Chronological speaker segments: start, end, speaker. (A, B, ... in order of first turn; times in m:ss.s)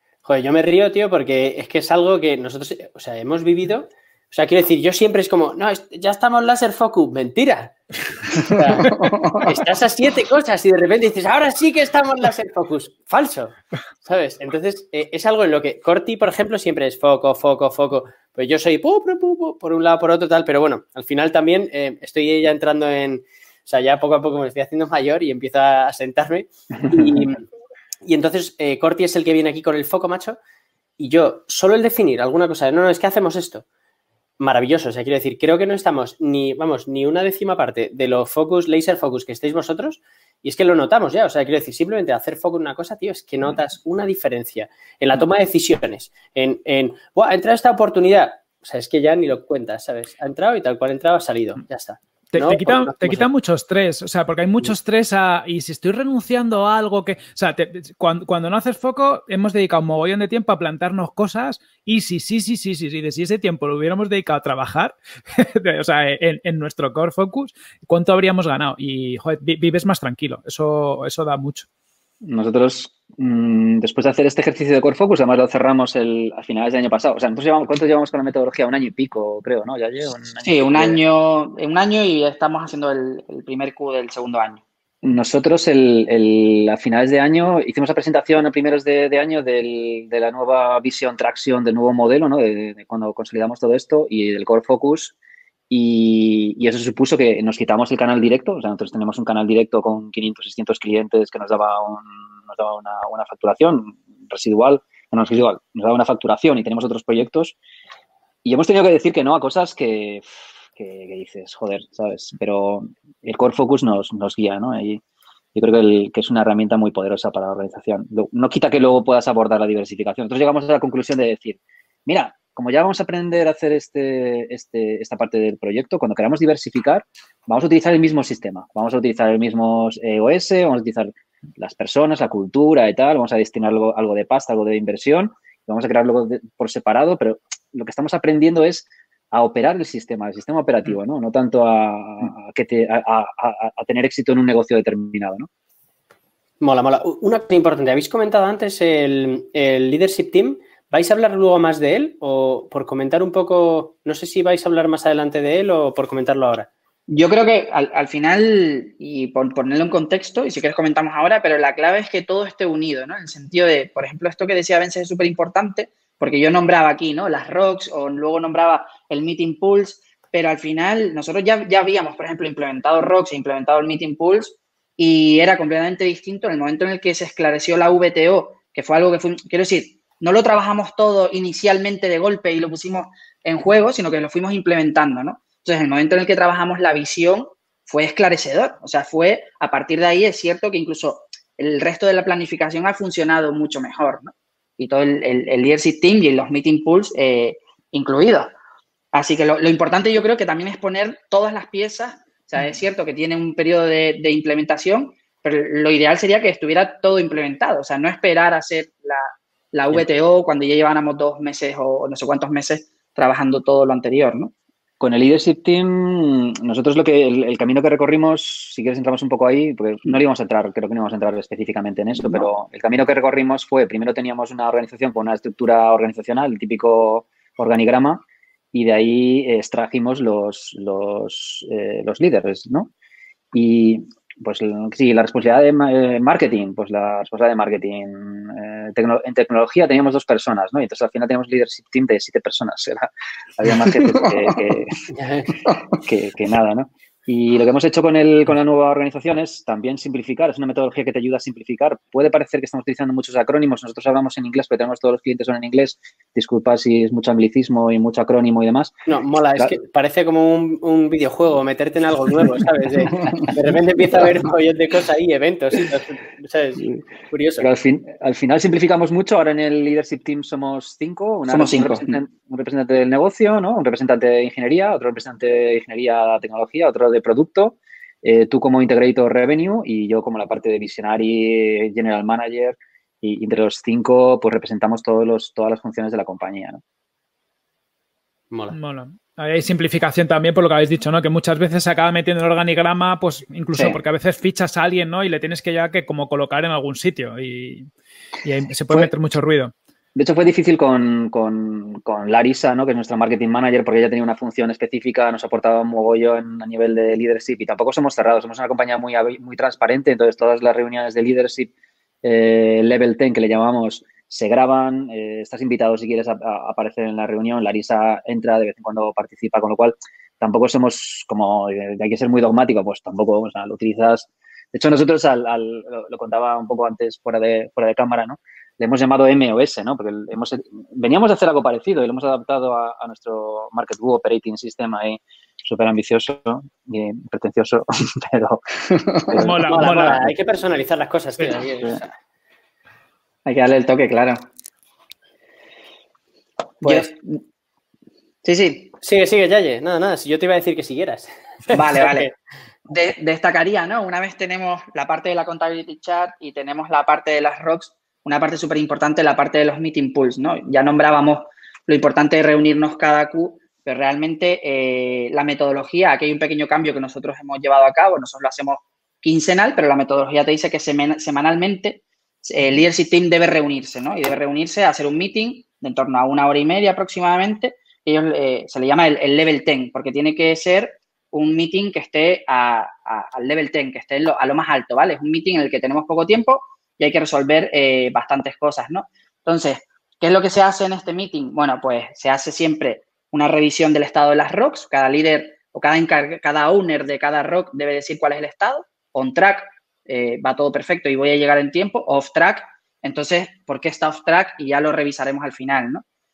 0:00.2-0:27.4 A
0:26.8-0:27.2 B
0:28.0-0:30.4 A
0:31.0-0:33.6 A
0:34.4-0:53.3 A
0:52.3-1:11.7 C
1:12.2-1:21.0 B
1:20.4-1:24.6 D
1:25.0-1:35.1 B
1:35.7-1:47.6 B
1:48.4-1:55.0 B
1:55.5-2:25.5 B
2:26.6-2:36.7 A
2:37.1-3:18.5 D
3:19.1-3:34.5 D
3:35.0-3:52.9 B
3:53.5-4:05.0 B
4:05.1-4:05.5 A
4:05.9-4:18.9 B
4:19.1-4:27.7 A
4:27.6-4:46.8 B
4:31.5-4:32.1 D
4:48.5-4:48.8 A
4:48.7-4:57.9 C
4:53.7-4:54.0 B
4:58.4-4:59.7 C
5:00.1-5:11.7 B
5:12.2-5:38.6 B
5:39.2-5:40.3 B
5:39.4-5:40.3 C
5:39.7-5:42.1 A
5:43.4-5:44.4 D
5:46.8-5:47.4 D
5:48.4-5:48.9 D
5:49.0-5:52.3 A
5:51.7-5:52.3 D
5:52.9-6:46.0 D